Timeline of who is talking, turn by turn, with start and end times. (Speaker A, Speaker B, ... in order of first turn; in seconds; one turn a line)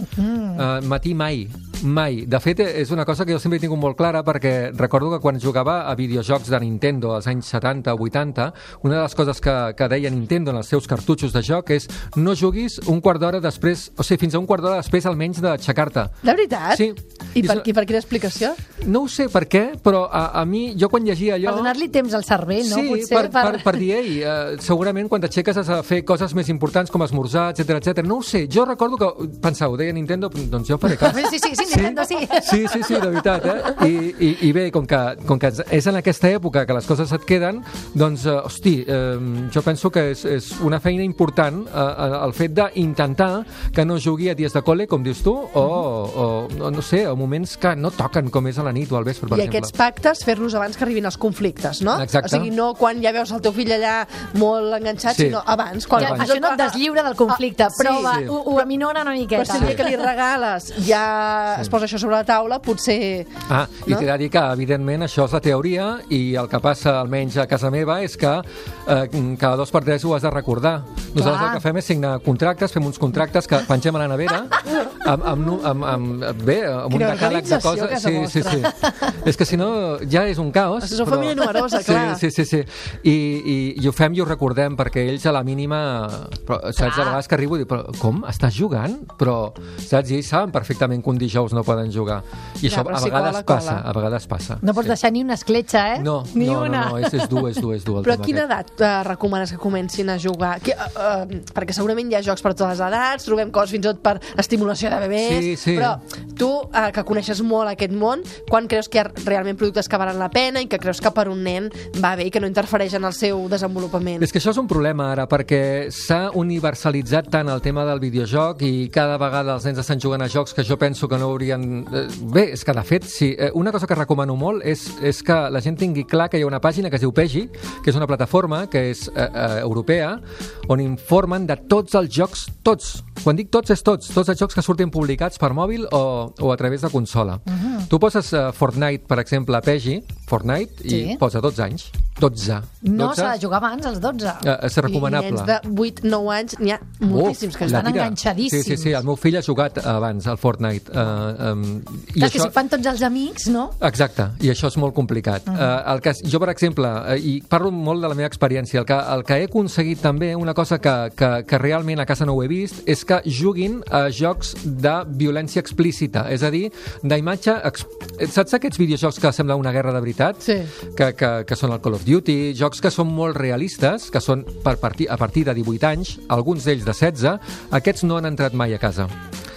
Speaker A: 0.1-0.6
Speaker B: 0.5-16.1
Speaker C: 16.2-18.6
Speaker B: 16.7-17.6
Speaker B: 18.8-21.8
Speaker A: 21.4-23.8
Speaker B: 22.6-49.7
Speaker A: 30.9-33.7
Speaker C: 49.3-58.6
Speaker B: 51.9-52.5
Speaker B: 55.1-56.3
Speaker A: 55.9-59.9
Speaker B: 57.9-58.4
Speaker C: 59.3-63.3
Speaker B: 59.5-59.9
Speaker B: 63.5-95.0
Speaker A: 71.2-71.6
Speaker C: 76.9-78.7
Speaker C: 80.8-82.2
Speaker A: 86.8-87.1
Speaker C: 92.6-93.8
Speaker A: 94.6-97.5
Speaker B: 96.0-98.4
Speaker C: 98.0-114.2
Speaker B: 105.2-106.0
Speaker B: 114.2-143.3
Speaker A: 137.5-137.9
Speaker A: 140.9-141.2
Speaker A: 142.8-144.5
Speaker B: 144.4-145.5
Speaker C: 144.9-148.0
Speaker B: 147.1-152.5
Speaker A: 147.6-149.0
Speaker A: 152.2-153.7
Speaker B: 153.8-179.1
Speaker C: 170.4-170.7